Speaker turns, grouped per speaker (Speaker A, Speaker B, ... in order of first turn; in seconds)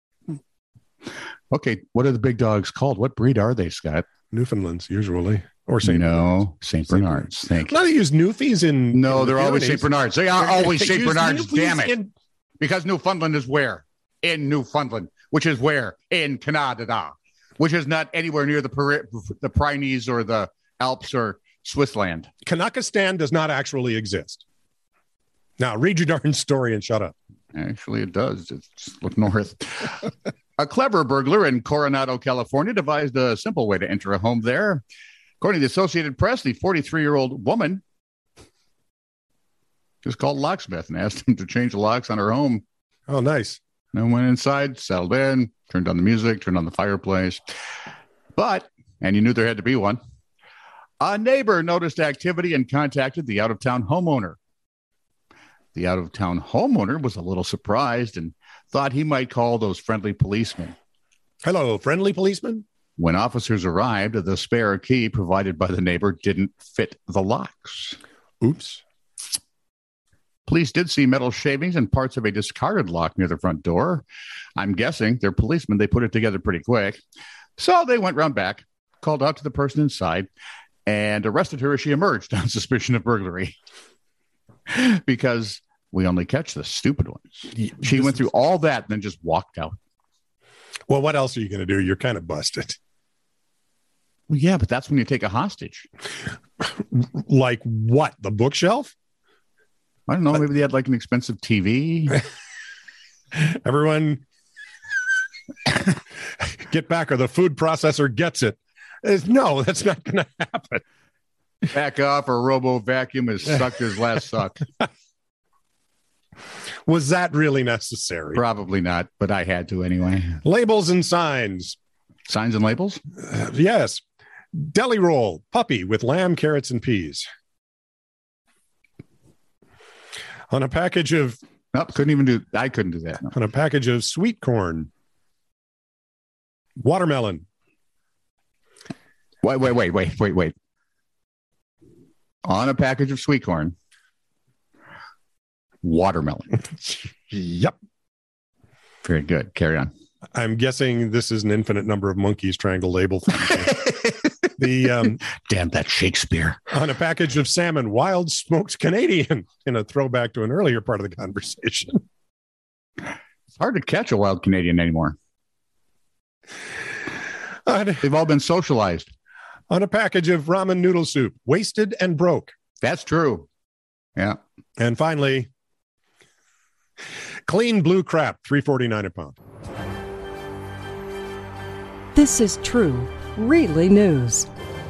Speaker A: 1.5-4.1, 5.8-7.8, 8.9-12.0, 12.6-22.3, 27.5-34.8, 35.4-37.8, 40.0-42.6, 43.9-47.4, 48.4-50.0, 51.0-54.4, 55.8-60.7, 63.0-68.0, 70.5-77.0, 77.6-80.3, 80.9-83.5, 84.7-89.8, 94.3-95.9, 100.1-102.2, 111.7-114.6, 118.3-120.4, 122.3-123.0, 131.7-133.3, 139.4-140.5, 142.4-143.7, 145.8-146.6, 149.0-149.9, 155.2-156.6, 163.5-165.2, 168.0-169.1, 172.8-173.5
Speaker B: 4.3-12.1, 22.4-24.4, 25.6-27.1, 43.1-43.6, 61.4-62.6, 68.4-68.8, 87.5-88.3, 90.9-92.8, 96.6-98.9, 103.3-104.2, 106.4-110.8, 116.9-118.4, 120.4-121.8, 123.2-124.0, 124.5-127.3, 130.5-131.4, 133.3-134.9, 136.8-137.4, 147.3-147.7, 150.3-154.0, 154.6-155.2, 156.7-162.0, 167.7-168.1, 169.7-172.5, 174.8-175.5, 177.5-179.4
Speaker C: 182.2-184.5